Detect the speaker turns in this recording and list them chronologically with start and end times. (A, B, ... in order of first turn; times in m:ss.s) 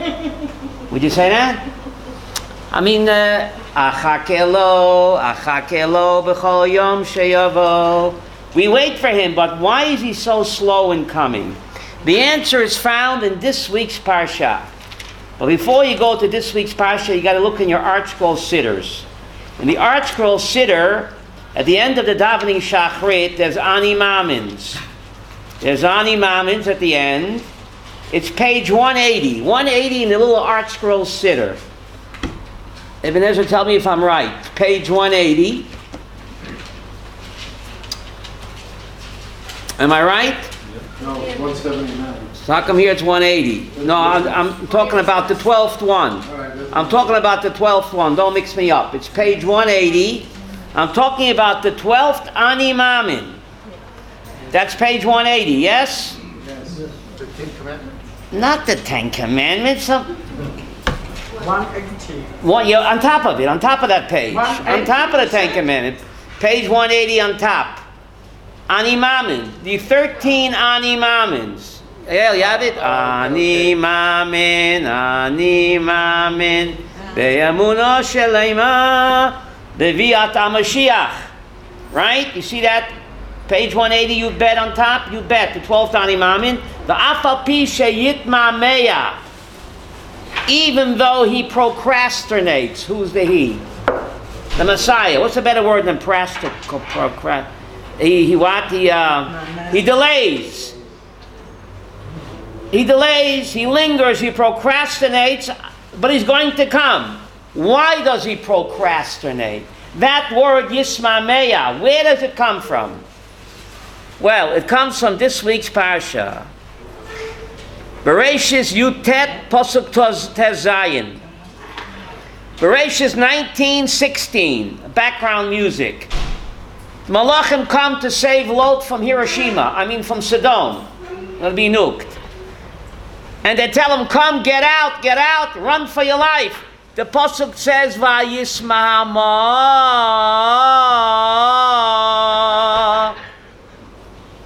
0:00.9-0:01.6 A
0:02.7-0:14.6 A
0:15.4-0:19.0 A
0:19.6-0:24.8 A
0:25.6-0:27.4 A
0:28.1-0:31.6 A
0:33.0-0:35.7 A
0:39.8-0:40.5 A
0:41.0-0:42.3 B
0:42.4-0:53.4 A
0:43.8-0:44.0 B
0:46.3-0:47.1 B
0:54.5-0:56.2 A
0:56.4-0:58.0 B
0:58.3-1:00.1 A
1:01.4-1:02.4 C
1:02.4-1:07.8 A
1:04.3-1:05.2 C
1:08.7-1:21.3 A
1:12.8-1:13.6 B
1:21.9-1:22.9 A
1:23.5-1:29.2 A
1:30.5-1:33.6 A
1:34.6-1:40.7 A
1:39.3-1:39.8 C
1:42.7-1:53.0 A
1:54.2-1:56.5 A
1:58.0-2:01.2 A
2:02.6-2:06.1 A
2:07.1-2:12.2 A
2:13.4-2:23.1 A